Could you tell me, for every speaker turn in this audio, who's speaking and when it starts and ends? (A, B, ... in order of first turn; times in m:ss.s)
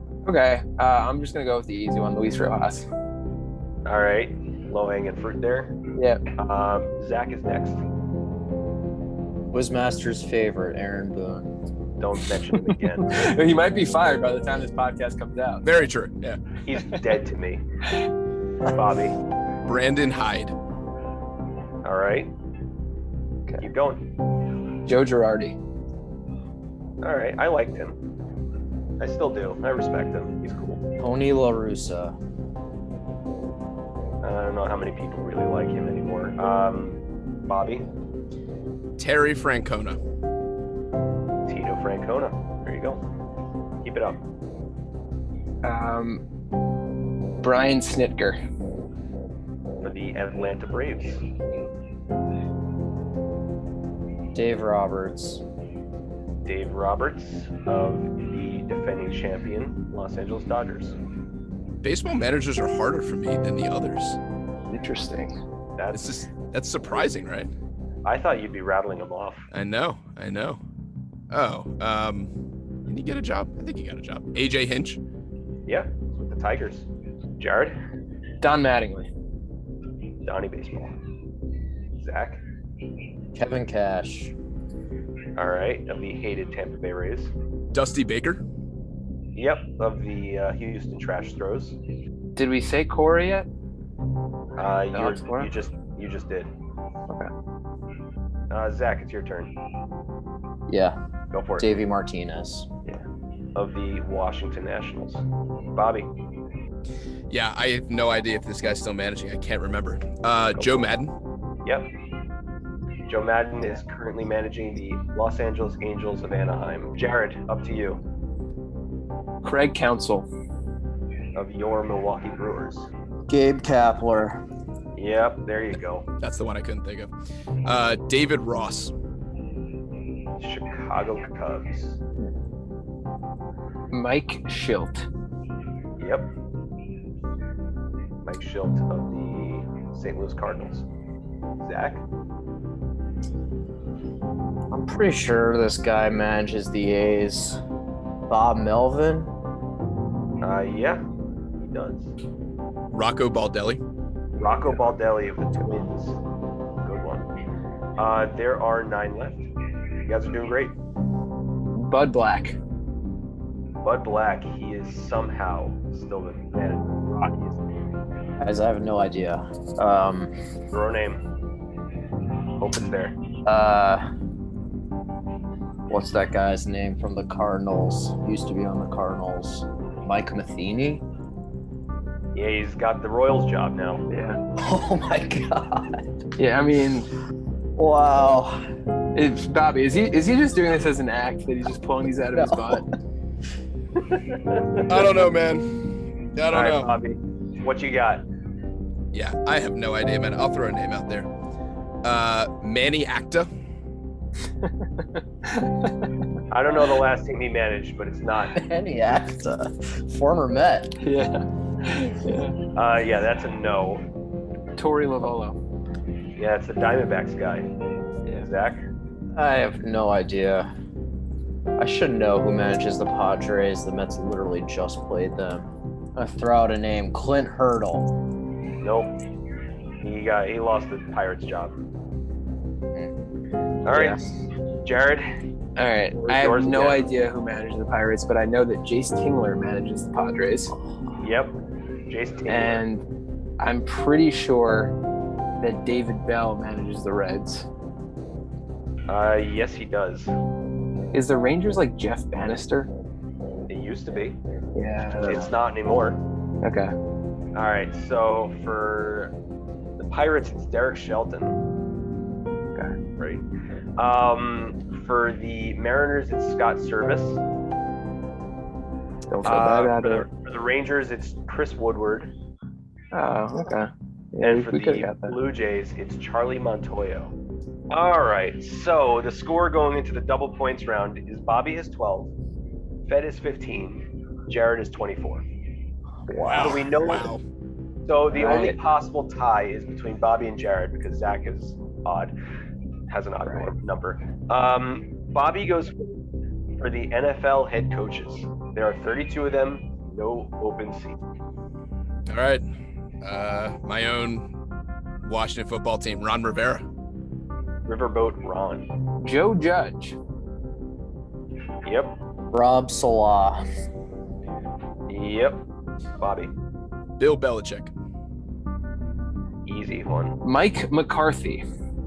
0:00.3-0:02.9 A
0:03.9-0:05.8 B
0:06.0-0:06.2 A
0:06.4-0:07.8 B
0:09.5-0:11.5 C
0:12.0-0:13.3 B
0:12.5-0:15.6 A
0:15.6-0:16.4 D
0:16.7-0:17.6 B
0:18.7-0:19.1 B
0:19.7-0:20.6 D
0:21.8-0:22.3 B
0:23.6-0:24.0 B
0:24.9-0:25.6 A
0:27.0-0:28.0 B
0:29.0-0:30.8 B
0:31.0-0:32.2 C
0:34.2-0:37.9 B
0:39.0-0:40.0 D
0:41.5-0:43.0 B
0:43.8-0:44.2 B
0:45.6-0:46.2 A
0:47.4-0:48.4 A
0:49.8-0:51.2 B
0:54.4-0:55.4 C
0:56.5-1:01.0 B
1:01.8-1:04.2 D
1:04.7-1:05.4 A
1:05.8-1:06.1 B
1:05.9-1:07.5 D
1:08.0-1:09.5 B
1:09.5-1:10.6 D
1:11.3-1:12.3 D
1:12.9-1:15.0 D
1:15.7-1:16.9 B
1:17.4-1:17.8 B
1:18.4-1:19.1 A
1:20.2-1:20.9 B
1:22.0-1:22.4 B
1:23.4-1:24.3 C
1:25.4-1:27.3 B
1:27.7-1:28.4 D
1:29.4-1:31.8 B
1:32.4-1:33.5 A
1:34.6-1:36.5 B
1:34.9-1:35.5 A
1:38.5-1:39.5 B
1:40.7-1:41.0 C
1:41.3-1:41.7 B
1:41.6-1:42.7 C
1:43.6-1:45.2 B
1:45.8-1:46.1 B
1:47.3-1:51.1 D
1:50.6-1:50.8 B
1:51.6-1:51.9 B
1:53.1-1:58.0 B
1:59.4-2:00.3 A
2:01.4-2:02.9 B
2:03.3-2:04.4 C
2:05.0-2:06.1 B
2:06.2-2:07.1 D
2:07.6-2:08.9 D
2:10.4-2:12.0 B
2:13.9-2:15.1 A
2:16.0-2:16.3 B
2:18.2-2:20.9 B
2:21.6-2:22.0 B
2:24.7-2:27.6 C
2:28.3-2:29.3 C
2:30.4-2:31.0 B
2:31.6-2:32.1 B
2:32.9-2:33.8 D
2:34.4-2:36.2 B
2:36.8-2:37.3 B
2:38.0-2:39.5 B
2:40.1-2:40.8 B
2:41.8-2:42.6 A
2:43.8-2:47.6 B
2:48.4-2:50.3 C
2:50.7-2:51.2 B
2:52.6-2:53.2 B
2:53.5-2:54.1 C
2:55.9-3:01.0 C
3:02.4-3:04.0 B
3:04.1-3:04.4 A
3:04.6-3:06.0 C
3:06.4-3:07.1 A
3:07.8-3:08.6 C
3:09.2-3:12.8 A
3:12.4-3:12.9 C
3:14.2-3:15.1 B
3:14.9-3:15.8 D
3:16.4-3:17.0 D
3:16.5-3:18.2 B
3:19.1-3:21.3 D
3:22.0-3:23.5 D
3:24.6-3:26.2 A
3:26.5-3:28.6 B
3:28.6-3:31.0 C
3:31.0-3:32.6 A
3:32.8-3:34.0 B
3:34.8-3:35.6 A
3:36.4-3:37.7 B
3:38.4-3:38.8 B
3:39.4-3:40.7 C
3:41.8-3:48.1 C
3:48.8-3:49.1 B
3:50.0-3:51.8 B
3:53.9-3:54.2 B
3:53.9-3:54.3 C
3:54.8-3:55.3 B
3:55.8-4:00.7 A
3:56.2-3:57.0 B
4:00.9-4:01.2 C
4:01.2-4:01.5 B
4:02.1-4:02.8 B
4:02.5-4:03.0 A
4:03.6-4:04.9 A
4:05.6-4:07.7 A
4:09.1-4:10.3 B
4:11.1-4:12.9 A
4:13.7-4:14.4 B
4:14.8-4:15.5 A
4:15.0-4:16.2 B
4:16.6-4:16.9 A
4:17.6-4:19.3 B
4:20.0-4:21.6 B
4:23.2-4:23.4 B
4:24.0-4:27.4 B
4:29.3-4:30.3 A
4:29.4-4:32.3 B
4:33.1-4:35.4 A
4:34.4-4:37.3 B
4:37.9-4:42.3 B
4:43.1-4:45.4 B
4:46.4-4:47.4 D
4:46.4-4:46.6 A
4:46.5-4:47.3 B
4:48.1-4:52.3 B
4:48.3-4:48.8 A
4:53.1-4:56.2 B
4:53.4-4:53.7 A
4:56.8-5:01.2 B
5:02.3-5:02.6 D
5:03.2-5:04.5 D
5:05.2-5:06.8 D
5:07.9-5:08.9 B
5:09.2-5:10.2 A
5:11.8-5:12.1 B
5:12.5-5:13.6 C
5:15.1-5:15.6 B
5:16.2-5:16.5 B
5:17.2-5:17.9 D
5:19.7-5:20.4 B
5:20.4-5:21.6 A